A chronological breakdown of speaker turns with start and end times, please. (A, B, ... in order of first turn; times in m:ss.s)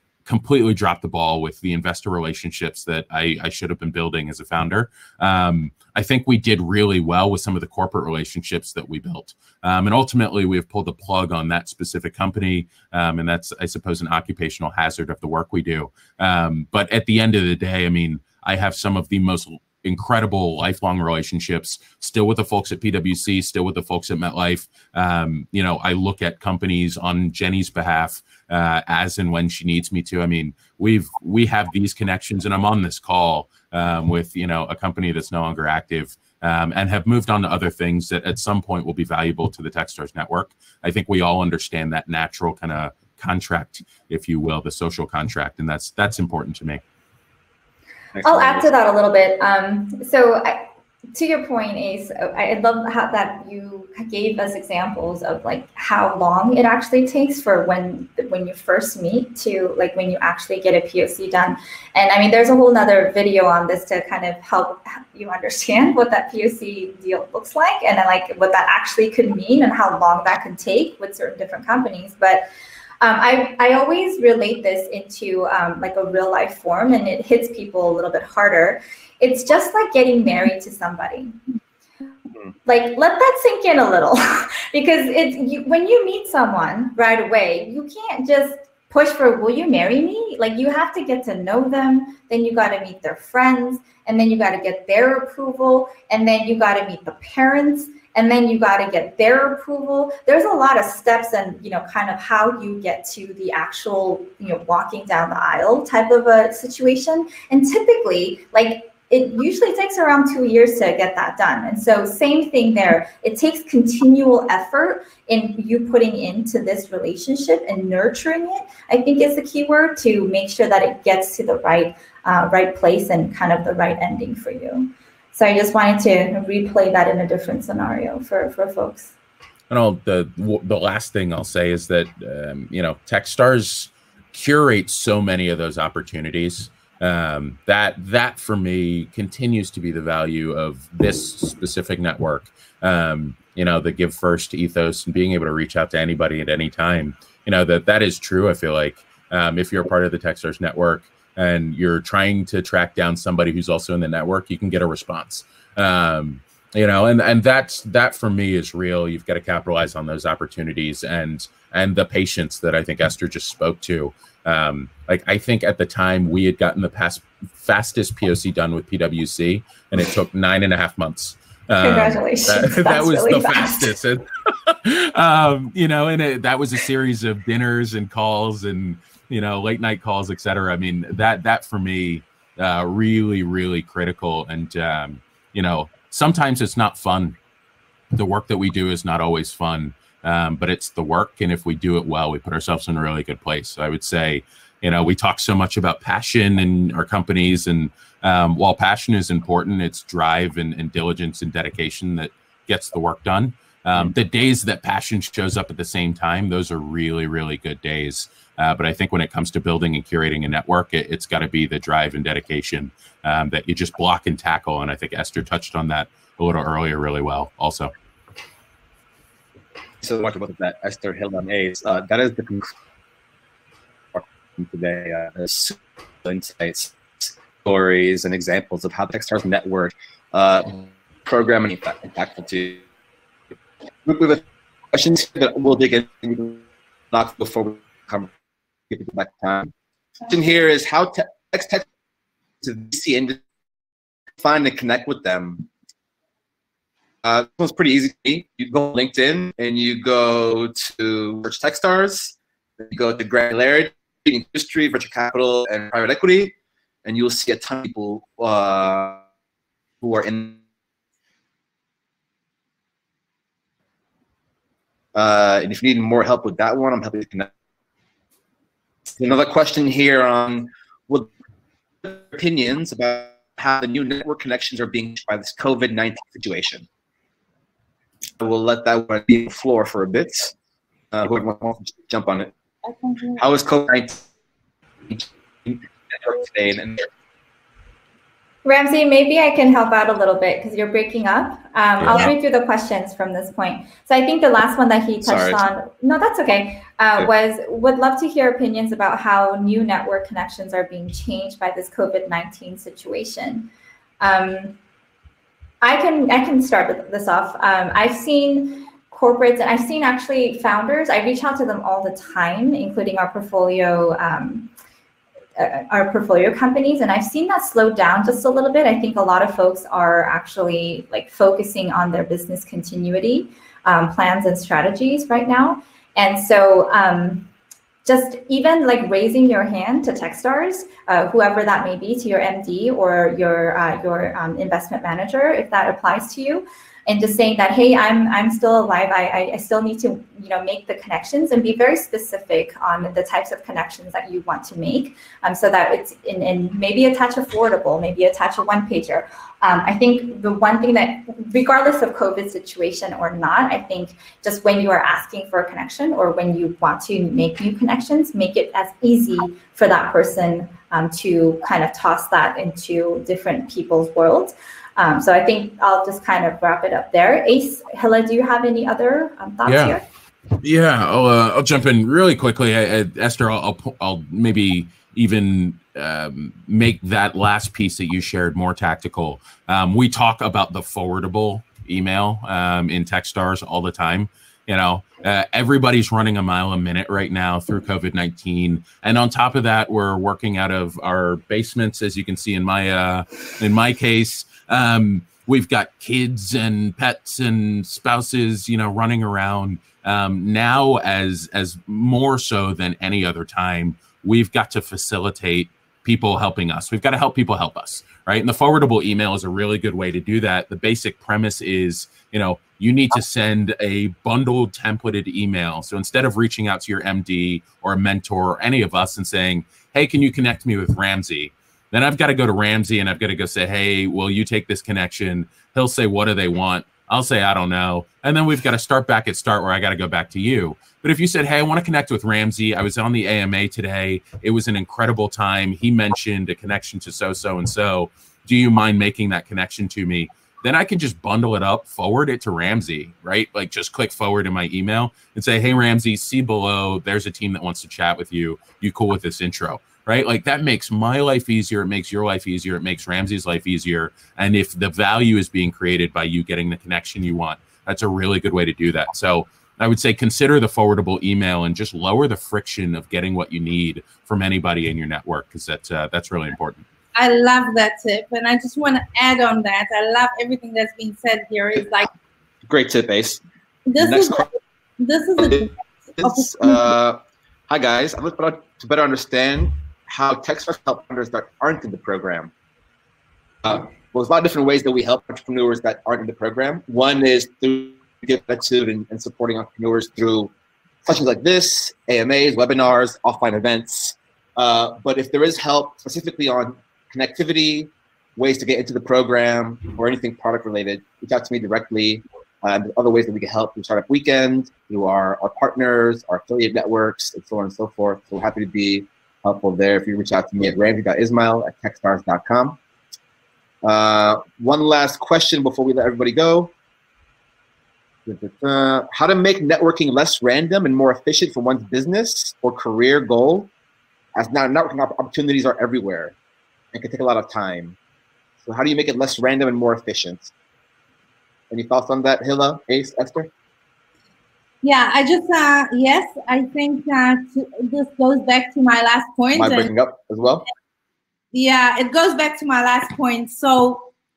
0:00.3-0:46.8 A
0:48.1-0:48.6 B
0:48.2-1:12.5 C
1:13.0-1:21.4 C
1:22.7-2:09.2 C
2:09.7-3:07.4 A
2:51.8-2:53.9 C
3:08.1-3:37.9 A
3:40.0-3:42.7 B
3:44.1-3:52.8 B
3:54.0-3:58.3 B
3:58.9-3:59.7 B
4:00.2-4:01.9 B
4:02.6-4:03.4 B
4:04.4-4:05.7 B
4:07.2-4:19.2 B
4:20.0-4:20.6 B
4:25.1-4:27.5 B
4:29.2-4:31.3 B
4:32.0-4:36.9 B
4:38.4-4:40.5 B
4:41.1-4:42.5 B
4:42.8-4:43.4 D
4:43.4-4:44.2 B
4:45.1-4:47.1 B
4:48.6-5:04.8 C
4:52.0-4:52.3 A
4:55.2-4:55.6 B
5:05.8-5:14.7 C
5:15.6-5:27.5 C
5:28.0-6:10.0 C
6:09.7-6:10.0 A
6:10.6-7:46.9 A
7:47.2-7:52.1 D
7:52.7-7:53.4 B
7:53.9-7:56.9 D
7:54.0-7:54.5 B
7:55.4-8:02.5 B
8:03.6-8:10.5 B
8:11.0-8:32.8 B
8:33.8-8:36.7 B
8:38.3-8:43.7 B
8:44.4-8:46.4 B
8:46.9-8:48.0 B
8:48.6-8:50.5 B
8:51.7-8:53.5 B
8:54.8-8:59.9 D
8:59.6-9:00.7 B
9:01.5-9:04.1 D